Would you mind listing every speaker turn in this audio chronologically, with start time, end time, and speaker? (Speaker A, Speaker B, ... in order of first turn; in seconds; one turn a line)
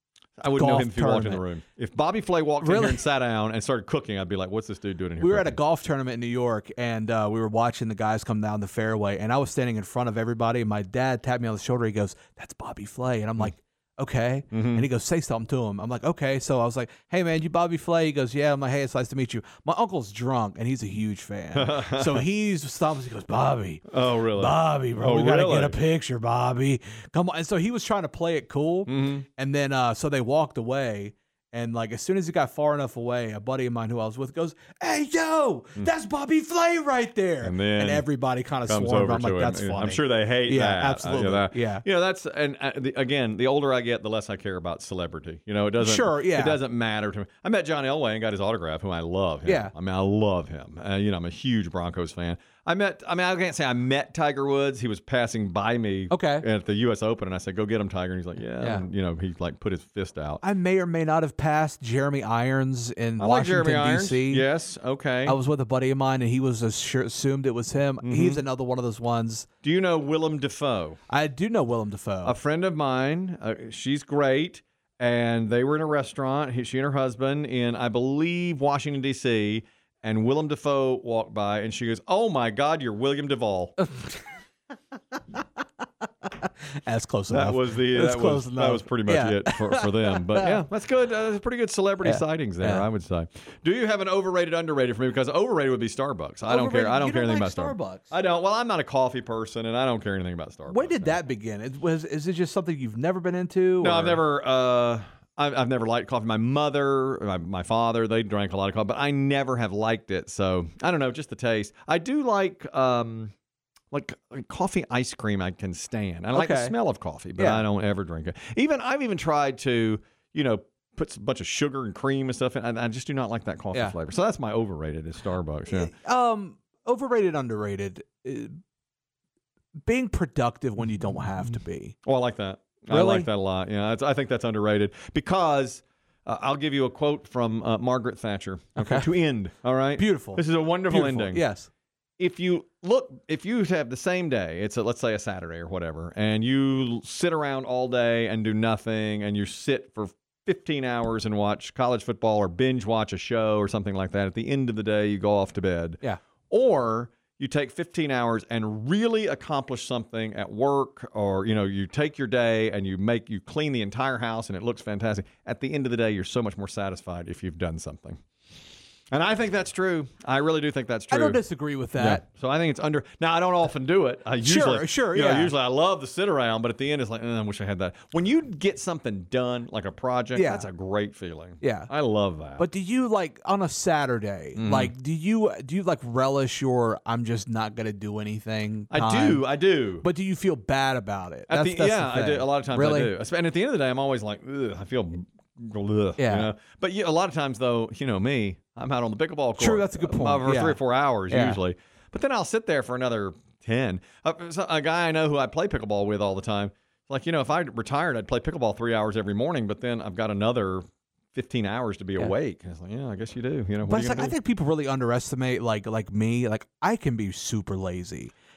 Speaker A: 0.4-5.5
Speaker B: 0.5-1.4
Speaker B: 2.6-3.0
Speaker B: 5.2-41.8
Speaker A: 14.5-14.8
Speaker A: 21.5-22.2
Speaker A: 23.9-25.8
Speaker A: 28.9-29.2
Speaker A: 37.4-38.0
Speaker A: 38.7-60.4
Speaker B: 45.8-46.6
Speaker B: 49.4-49.7
Speaker B: 56.1-56.5
Speaker B: 60.4-64.4
Speaker A: 63.2-65.4
Speaker B: 65.2-69.5
Speaker A: 68.0-68.4
Speaker A: 69.6-71.0
Speaker B: 71.1-72.3
Speaker A: 72.2-83.8
Speaker B: 86.3-90.6
Speaker A: 87.3-101.2
Speaker B: 92.0-92.8
Speaker B: 96.5-98.1
Speaker B: 100.7-104.2
Speaker A: 103.8-113.3
Speaker A: 113.9-125.9
Speaker B: 116.3-116.7
Speaker B: 117.3-117.6
Speaker B: 125.7-128.6
Speaker B: 129.8-131.9
Speaker A: 132.0-141.4
Speaker B: 132.9-133.3
Speaker B: 138.8-139.1
Speaker B: 140.0-141.7
Speaker A: 142.2-168.2
Speaker A: 169.1-171.4
Speaker B: 171.1-172.2
Speaker A: 171.9-182.7
Speaker B: 174.4-175.5
Speaker B: 180.3-180.7
Speaker B: 181.6-181.9
Speaker B: 182.6-189.4
Speaker A: 184.6-184.9
Speaker A: 188.9-190.1
Speaker B: 190.0-193.1
Speaker A: 191.5-214.3
Speaker B: 196.2-196.5
Speaker B: 199.6-200.8
Speaker B: 201.3-201.6
Speaker B: 213.8-218.3